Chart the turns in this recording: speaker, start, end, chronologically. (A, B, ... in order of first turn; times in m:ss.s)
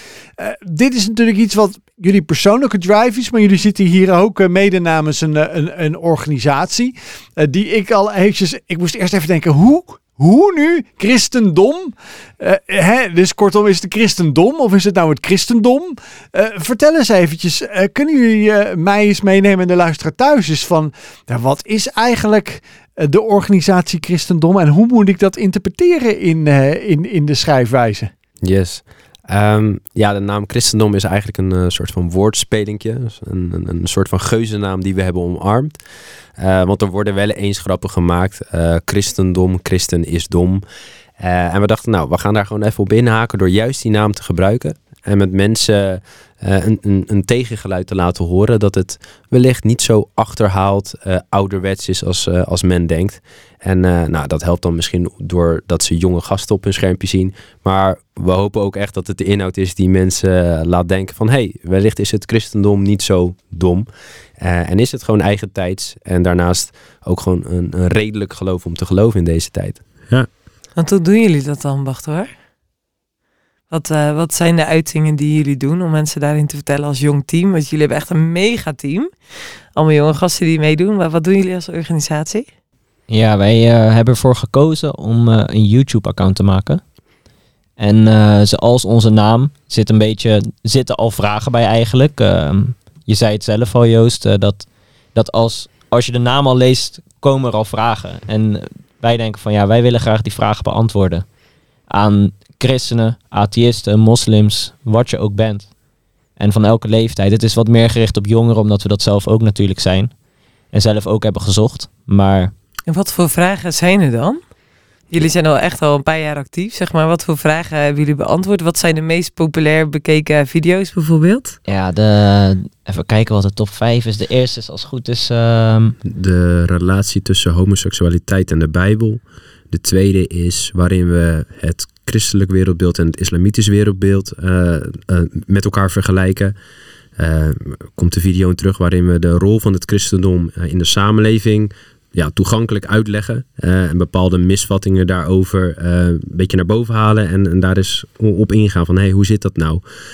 0:00.4-0:28.1 A
0:28.4-0:35.8 B
0:36.4-0:40.6 B
0:41.2-1:03.9 B
1:04.4-1:10.3 B
1:10.8-1:12.3 C
1:13.7-1:19.1 C
1:19.7-1:22.5 C
1:23.1-1:26.8 D
1:27.8-1:41.2 D
1:41.9-1:45.7 D
1:46.4-1:50.1 D
1:50.7-1:52.5 D
1:52.9-1:54.4 C
1:55.1-2:01.6 C
2:01.7-2:06.0 D
2:06.0-2:16.5 B
2:17.2-2:29.8 B